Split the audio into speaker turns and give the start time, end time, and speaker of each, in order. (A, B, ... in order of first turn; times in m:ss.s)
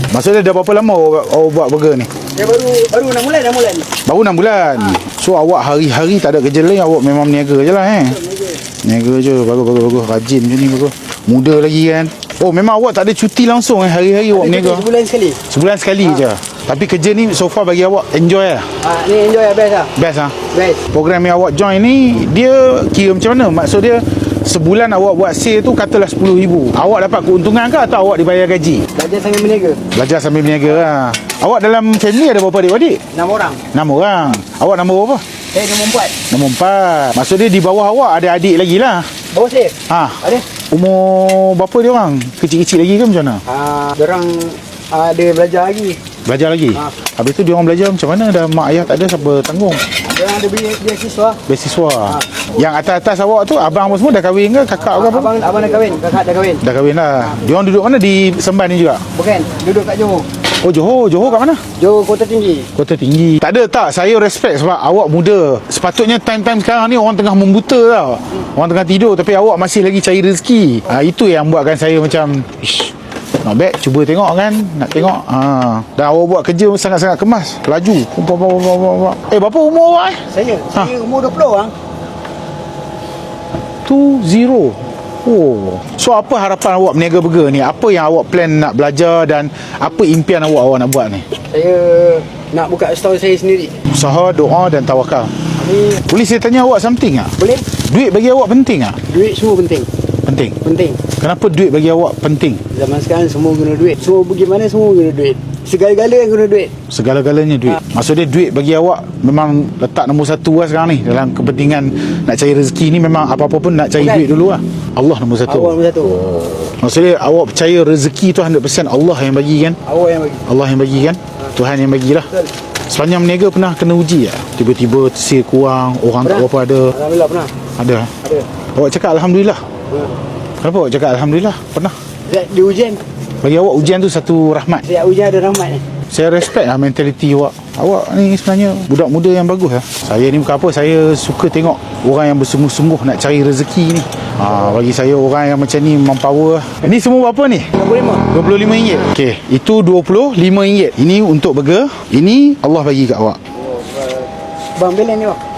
0:00.1-0:02.1 A
0:02.3-0:03.9 B
0:04.0-0:08.2 A
0:08.1-0:08.6 B
0:08.8-0:14.9 A
0:14.3-0:15.4 B
0:15.5-0:18.8 A
0:18.8-0:19.9 B
0:20.0-0:20.4 A
0:20.5-0:20.8 B
0:20.9-0:28.9 A
0:28.9-0:29.8 B
0:29.9-0:33.0 A
0:33.1-0:33.6 B
0:33.7-0:35.2 A
0:35.5-0:36.2 B
0:36.3-0:39.1 A
0:39.3-0:40.4 B
0:39.9-0:43.4 A
0:43.4-0:46.0 B
0:46.2-0:49.8 A
0:50.0-0:51.4 B
0:51.4-0:55.3 A
0:54.9-0:56.6 B
0:56.6-0:59.0 A
0:59.1-1:00.3 B
1:00.5-1:01.6 A
1:01.8-1:02.7 B
1:02.7-1:20.9 A
1:20.3-1:21.7 B
1:23.8-1:31.3 A
1:31.4-1:33.8 B
1:33.9-1:35.4 A
1:35.6-1:36.0 B
1:36.0-1:39.0 A
1:37.4-1:37.7 B
1:39.1-1:39.9 B
1:40.2-1:40.6 A
1:40.6-1:41.0 B
1:41.2-1:42.6 A
1:42.7-1:46.7 B
1:46.9-1:59.8 A
1:54.0-1:54.2 B
1:55.4-1:56.2 B
1:59.8-2:00.4 B
2:00.4-2:02.3 A
2:02.9-2:06.9 A
2:06.2-2:07.5 B
2:07.8-2:08.2 A
2:08.7-2:09.6 A
2:09.9-2:10.2 B
2:10.6-2:12.0 A
2:12.3-2:13.0 B
2:13.4-2:14.8 A
2:14.8-2:15.8 B
2:16.1-2:27.7 A
2:27.7-2:28.3 B
2:28.3-2:33.4 A
2:33.6-2:35.4 B